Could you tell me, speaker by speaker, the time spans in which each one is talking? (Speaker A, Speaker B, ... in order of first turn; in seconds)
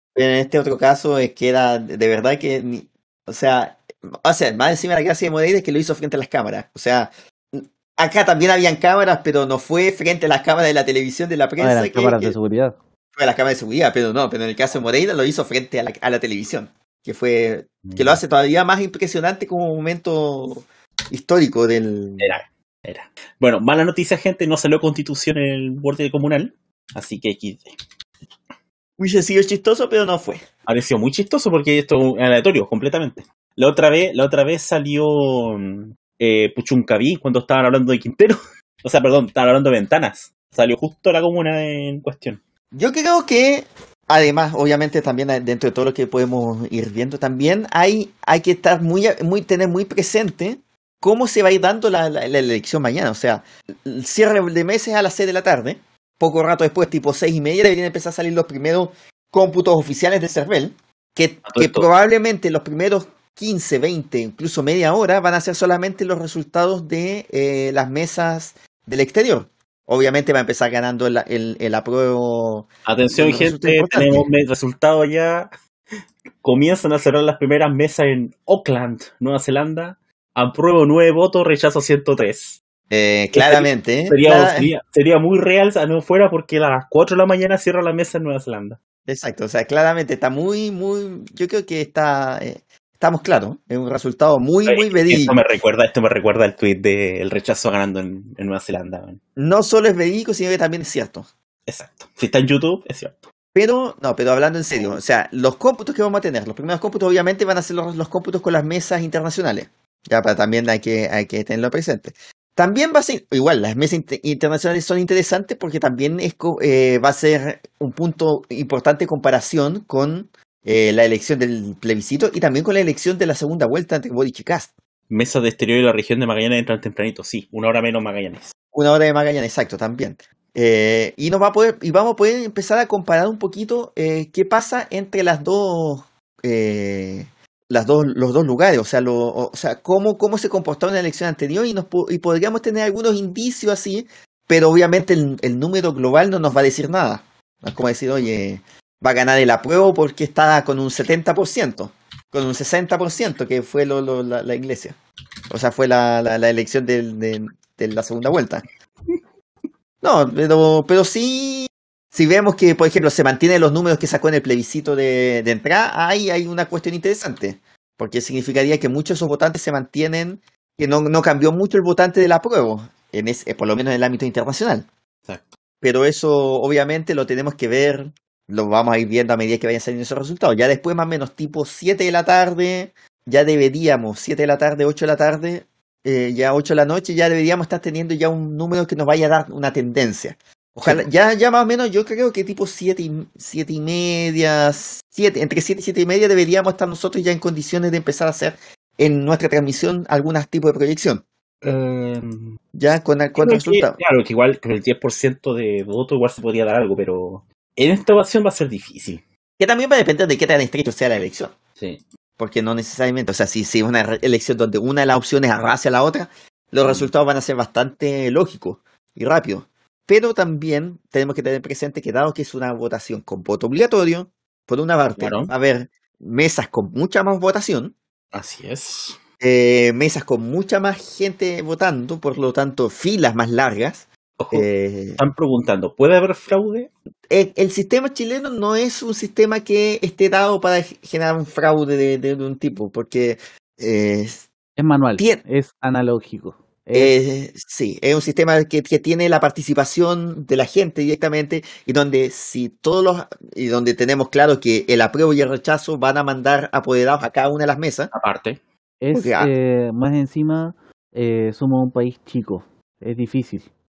Speaker A: 0.1-12.4, 13.2-22.3, 29.0-30.4, 42.7-74.3, 82.9-84.7, 89.1-95.4, 99.4-101.3, 103.5-124.7, 128.7-155.0, 155.5-158.6, 160.0-174.9, 175.8-201.2, 202.7-204.0, 209.6-211.6, 212.4-227.9, 229.4-235.2, 237.3-244.5, 245.2-245.4, 246.9-258.1, 259.1-259.5
Speaker B: 11.6-12.8, 244.8-247.2, 259.0-263.7
Speaker C: 17.8-18.2, 22.2-27.7, 30.7-42.4, 61.4-61.9, 72.9-75.5, 76.4-82.6, 83.3-88.8, 94.7-99.2, 101.7-103.3, 125.1-128.5, 201.6-202.6, 203.4-209.2, 216.8-217.1, 225.2-225.5, 228.3-229.2, 234.4-236.9, 258.1-258.6